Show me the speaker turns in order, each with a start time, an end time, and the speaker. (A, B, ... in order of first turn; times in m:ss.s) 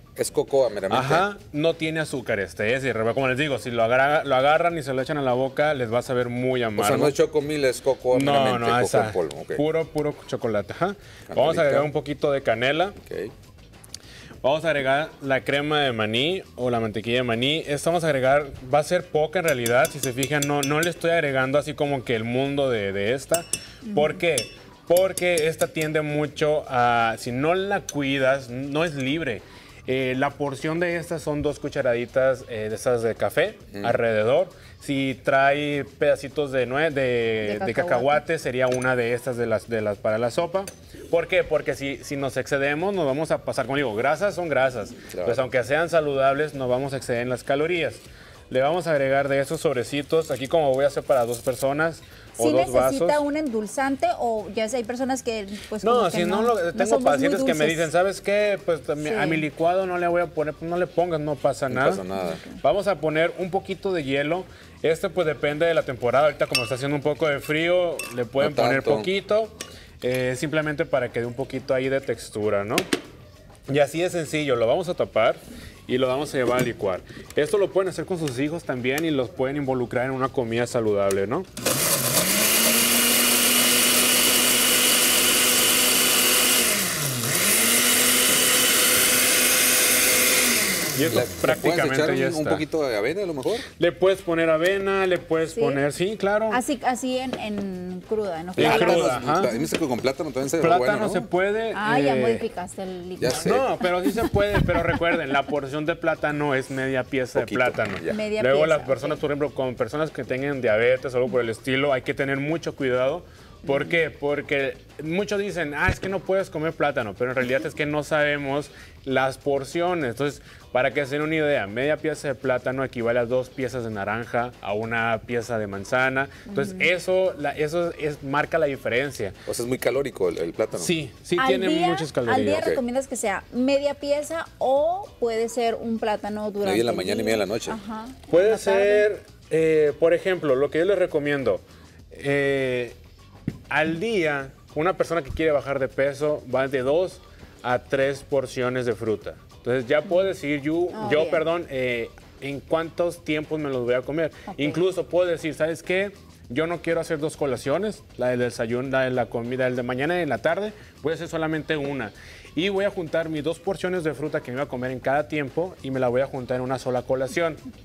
0:00.2-0:01.3 A
0:00.9-0:07.2 B
0:06.7-0:09.6 A
0:08.1-0:13.0 B
0:11.3-0:11.9 A
0:13.0-0:13.3 A
0:14.4-0:53.2 B
0:23.9-0:24.2 C
0:33.7-0:34.0 A
0:37.4-0:38.2 C
0:45.1-0:45.5 A
0:52.4-0:57.9 C
0:55.8-1:02.0 B
0:59.0-0:59.5 C
1:01.7-1:02.4 A
1:02.2-1:02.6 C
1:02.6-1:12.8 B
1:08.4-1:09.1 A
1:13.7-1:21.5 B
1:31.0-1:32.7 B
1:31.1-1:33.7 A
1:33.8-1:36.6 B
1:35.5-1:35.8 C
1:36.5-1:39.5 C
1:38.6-1:39.5 B
1:38.6-1:41.3 A
1:40.6-1:42.4 B
1:41.7-1:45.2 C
1:43.2-1:43.7 A
1:43.4-2:09.4 B
1:47.4-1:48.2 A
1:48.1-1:49.2 C
2:06.5-2:06.9 C
2:09.5-2:10.9 A
2:10.8-2:12.7 B
2:11.4-2:19.1 C
2:12.6-2:12.8 A
2:16.6-2:17.8 A
2:18.3-2:23.0 B
2:23.7-2:47.6 B
2:30.9-2:31.4 C
2:34.5-2:34.8 C